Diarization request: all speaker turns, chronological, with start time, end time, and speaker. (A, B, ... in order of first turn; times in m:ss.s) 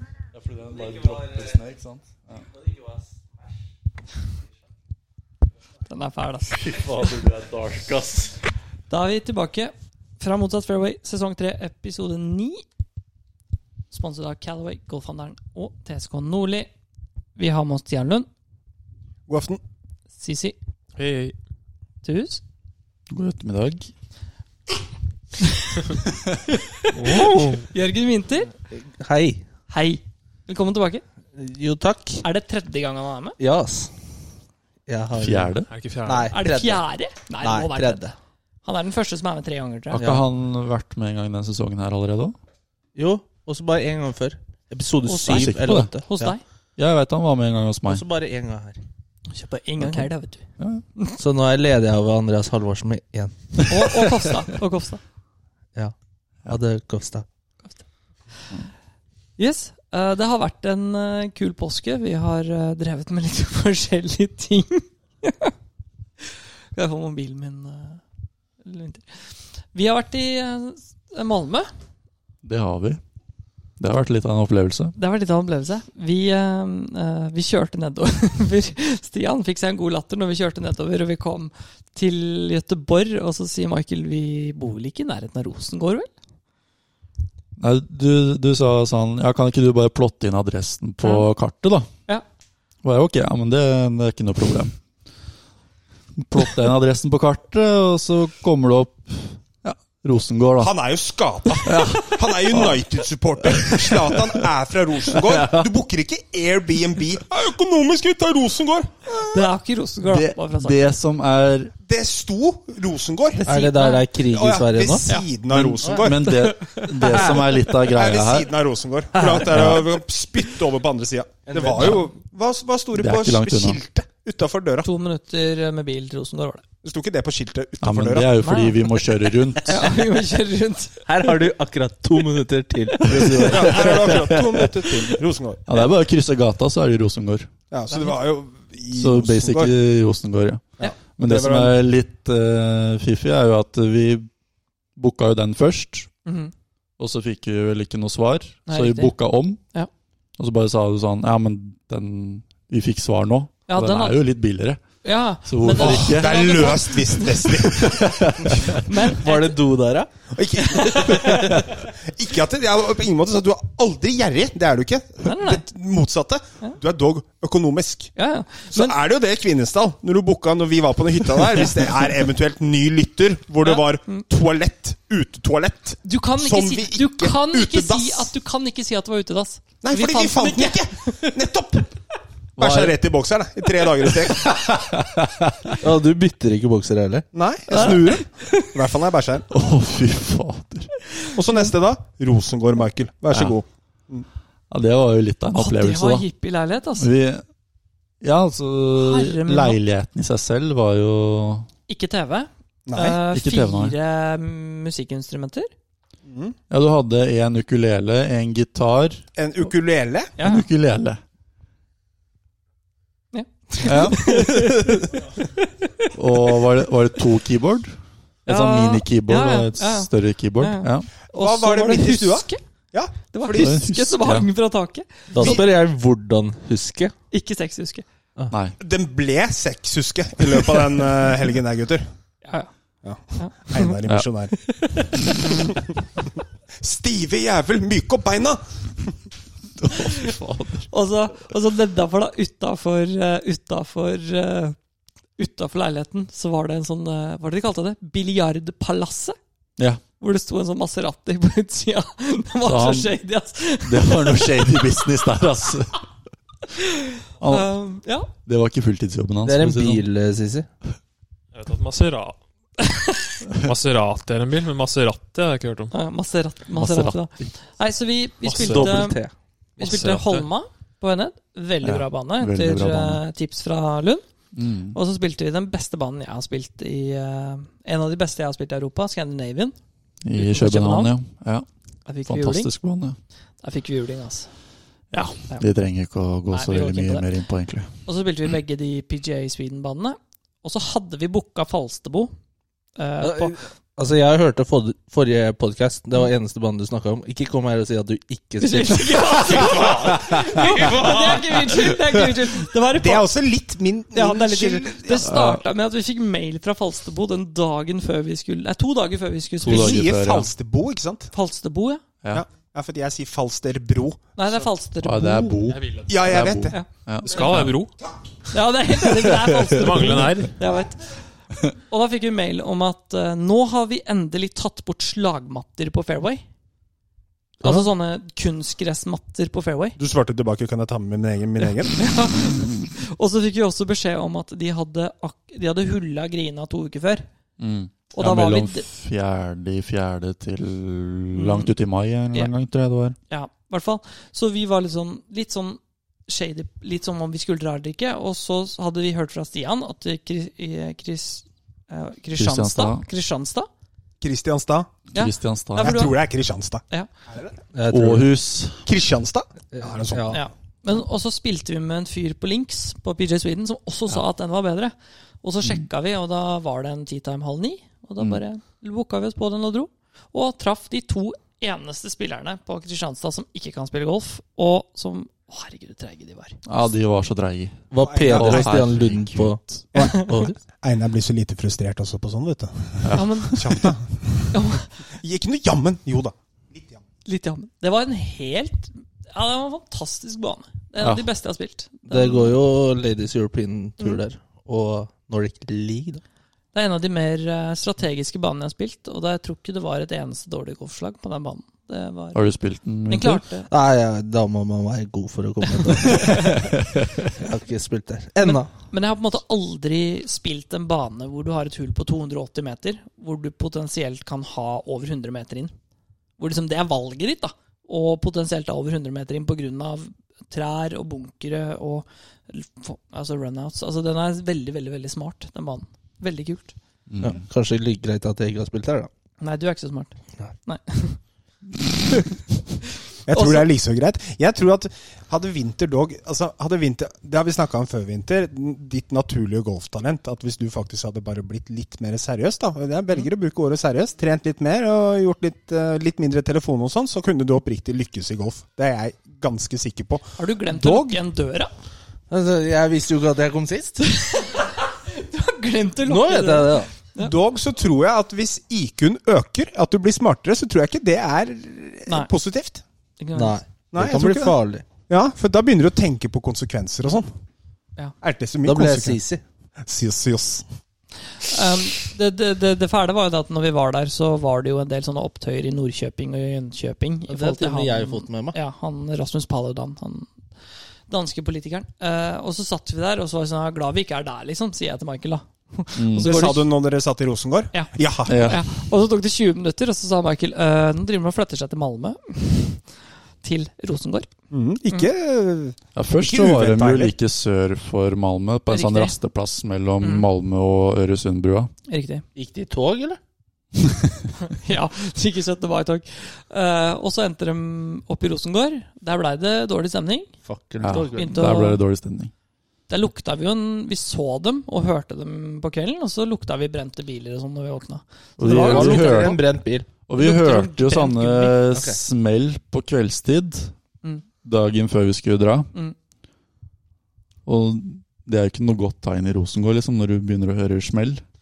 0:00.3-0:02.5 A
0:02.6-0:03.0 B
0:05.9-0:06.6 C
0:06.5-0:08.4 A
0:08.9-0:12.6 C
0:13.9-0:16.7 C
0:17.4-0:18.3 C
0:19.3-0:19.6 D
0:20.2-0:20.6 C
0:21.0-0:21.3 E
0:22.0-0:22.4 C
0:23.1-0:23.9 A
0:26.8-0:28.5 C
0:26.9-0:27.7 E
0:27.1-0:27.6 B
0:28.7-0:29.4 B
0:29.7-0:31.0 C
0:31.4-0:32.2 B
0:32.2-0:33.4 C
0:33.4-0:33.9 B
0:34.9-0:36.8 B
0:35.2-0:35.7 A
0:35.7-0:36.3 E
0:36.3-0:38.0 C
0:37.4-0:38.1 B
0:38.6-0:40.0 C
0:39.9-0:42.3 A
0:40.0-0:40.2 B
0:43.0-0:46.3 B
0:45.0-0:46.4 C
0:45.3-0:45.9 A
0:46.8-0:48.0 A
0:47.9-0:48.8 B
0:49.3-0:50.4 C
0:49.8-0:50.1 A
0:50.6-0:50.8 A
0:51.2-0:53.6 B
0:53.7-0:55.0 C
0:56.5-0:57.2 B
0:59.4-1:05.5 C
1:06.7-1:08.0 C
1:08.6-1:09.0 C
1:09.7-1:11.7 C
1:12.4-1:13.0 A
1:13.8-1:14.9 A
1:15.0-1:26.1 C
1:27.6-1:31.9 A
1:31.0-1:31.3 C
1:32.8-1:34.8 A
1:36.2-1:40.7 A
1:40.6-1:49.5 D
1:41.6-1:42.8 A
1:43.5-1:44.3 A
1:45.2-1:45.7 B
1:49.2-1:50.9 C
1:50.0-1:51.7 A
1:51.8-1:53.4 D
1:53.4-1:54.0 C
1:53.4-1:55.0 B
1:54.2-1:56.3 D
1:55.5-1:58.5 A
1:55.8-1:56.1 B
1:56.3-1:57.7 C
1:57.8-2:04.9 D
1:59.2-1:59.5 B
1:59.4-1:59.8 A
2:01.5-2:02.0 B
2:02.9-2:03.8 A
2:04.8-2:06.6 C
2:06.8-2:08.4 D
2:07.8-2:10.0 A
2:08.4-2:08.8 C
2:09.6-2:11.4 C
2:11.1-2:14.1 B
2:13.0-2:17.5 A
2:13.2-2:13.4 C
2:13.5-2:15.6 D
2:17.7-2:19.7 D
2:17.9-2:18.2 C
2:18.9-2:24.3 A
2:20.8-2:21.7 D
2:25.0-2:26.1 A
2:26.2-2:26.5 C
2:27.0-2:29.6 A
2:28.7-2:29.1 C
2:30.4-2:34.8 A
2:33.7-2:34.2 C
2:35.0-2:37.5 C
2:35.4-2:36.8 A
2:35.8-2:38.6 D
2:37.5-2:38.8 A
2:38.7-2:39.6 C
2:39.2-2:40.1 B
2:40.3-2:48.1 D
2:40.6-2:41.4 C
2:40.7-2:41.5 B
2:45.2-2:45.6 C
2:48.2-2:49.0 C
2:48.7-2:58.3 D
2:53.6-2:54.2 C
2:56.0-3:01.1 C
2:59.8-3:01.9 D
3:02.6-3:04.6 D
3:02.6-3:03.0 B
3:04.9-3:05.8 A
3:05.8-3:07.2 B
3:07.3-3:09.5 D
3:07.7-3:08.7 C
3:09.5-3:10.9 A
3:11.3-3:14.3 D
3:13.3-3:13.6 A
3:14.7-3:16.2 A
3:15.5-3:17.1 C
3:17.0-3:17.4 A
3:18.2-3:21.7 A
3:18.9-3:19.8 C
3:21.9-3:25.7 C
3:22.8-3:23.2 D
3:23.3-3:24.0 A
3:26.3-3:26.6 D
3:26.7-3:29.2 A
3:29.4-3:30.3 D
3:30.4-3:30.7 C
3:30.4-3:31.2 A
3:33.3-3:36.1 C
3:33.8-3:34.6 A
3:36.1-3:41.1 A
3:38.4-3:42.6 C
3:41.3-3:43.8 D
3:43.3-3:45.6 C
3:43.5-3:44.5 A
3:45.3-3:47.1 B
3:47.3-3:48.0 C
3:48.5-3:48.8 A
3:48.8-3:52.0 D
3:52.4-3:52.7 C
3:53.0-3:54.5 D
3:53.4-3:54.0 C
3:54.8-3:55.2 C
3:55.5-3:55.7 D
3:56.8-3:59.1 D
3:59.8-4:00.9 A
4:00.9-4:04.8 C
4:05.4-4:09.4 C
4:10.2-4:15.1 C
4:12.6-4:13.2 A
4:13.8-4:16.0 A
4:17.4-4:17.7 A
4:17.4-4:18.3 C
4:18.4-4:20.0 A
4:19.4-4:20.7 B
4:21.5-4:22.4 E
4:22.8-4:23.3 C
4:23.5-4:25.9 E
4:25.9-4:29.2 C
4:26.7-4:27.5 A
4:28.5-4:29.3 B
4:28.6-4:29.1 A
4:29.8-4:34.2 C
4:29.8-4:30.5 E
4:31.8-4:33.2 A
4:34.5-4:35.0 A
4:34.9-4:39.8 C
4:40.2-4:41.6 A
4:40.3-4:41.1 C
4:42.0-4:42.7 C
4:42.2-4:43.2 A
4:43.6-4:44.5 C
4:45.1-4:45.7 C
4:45.6-4:47.9 A
4:46.5-4:47.3 C
4:48.0-4:52.3 C
4:53.0-4:53.6 C
4:53.2-5:01.5 B
4:58.6-5:03.3 C
5:03.0-5:05.3 D
5:04.1-5:10.1 C
5:05.2-5:05.6 A
5:09.6-5:10.5 A
5:09.6-5:11.3 D
5:11.3-5:12.0 C
5:12.3-5:14.2 D
5:14.4-5:15.6 C
5:15.0-5:17.8 A
5:15.7-5:16.1 E
5:16.1-5:16.8 D
5:17.2-5:17.9 E
5:18.5-5:21.2 C
5:19.7-5:20.6 E
5:21.7-5:26.4 C
5:27.6-5:30.0 C
5:30.0-5:32.0 D
5:31.6-5:37.2 C
5:37.6-5:43.2 A
5:38.1-5:38.9 C
5:41.3-5:41.7 C
5:43.3-5:53.7 C
5:52.4-5:53.0 A
5:54.2-5:55.0 D
5:55.1-5:56.0 A
5:55.1-5:56.2 C
5:55.8-5:57.6 D
5:57.7-5:58.3 B
5:57.9-5:58.9 A
5:58.8-6:00.4 D
5:59.7-6:00.4 B
6:00.3-6:16.6 C
6:16.6-6:19.8 A
6:17.9-6:20.6 B
6:18.0-6:18.9 D
6:19.9-6:20.5 C
6:19.9-6:27.0 D
6:23.0-6:23.9 A
6:23.1-6:23.6 C
6:24.5-6:24.9 C
6:27.2-6:32.5 C
6:31.0-6:31.3 A
6:32.1-6:36.2 B
6:36.7-6:42.4 C
6:42.3-6:43.4 A
6:43.1-6:43.7 C
6:43.7-6:46.6 B
6:45.6-6:46.6 C
6:46.2-6:47.2 A
6:47.3-6:48.7 B
6:48.4-6:55.7 C
6:56.4-7:06.7 C
7:07.1-7:07.4 A
7:07.2-7:09.1 B
7:09.4-7:11.2 C
7:13.2-7:31.2 D
7:13.3-7:13.7 C
7:30.4-7:31.7 C
7:32.3-7:34.1 B
7:34.0-7:37.3 C
7:36.0-7:36.9 B
7:37.2-7:42.8 D
7:43.2-7:43.6 C
7:43.3-7:44.8 B
7:43.9-7:44.5 D
7:45.1-7:47.3 D
7:48.2-7:49.2 D
7:48.6-7:49.4 B
7:49.8-7:50.6 D
7:51.4-8:00.3 C
7:57.3-7:58.6 B
8:01.1-8:06.7 C
8:05.9-8:06.3 A
8:06.2-8:08.5 D
8:07.7-8:12.8 C
8:08.2-8:08.6 A
8:13.4-8:14.3 C
8:14.5-8:17.1 D
8:16.0-8:21.7 A
8:18.7-8:19.2 C
8:20.0-8:20.2 C
8:21.9-8:22.2 C
8:22.4-8:23.2 B
8:24.5-8:30.3 C
8:30.4-8:31.3 B
8:30.8-8:32.3 A
8:30.9-8:31.8 C
8:32.9-8:39.4 C
8:38.4-8:39.4 A
8:38.5-8:39.9 B
8:40.1-8:43.7 A
8:40.2-8:41.6 C
8:41.7-8:42.0 B
8:44.4-8:45.7 A
8:47.4-8:51.2 A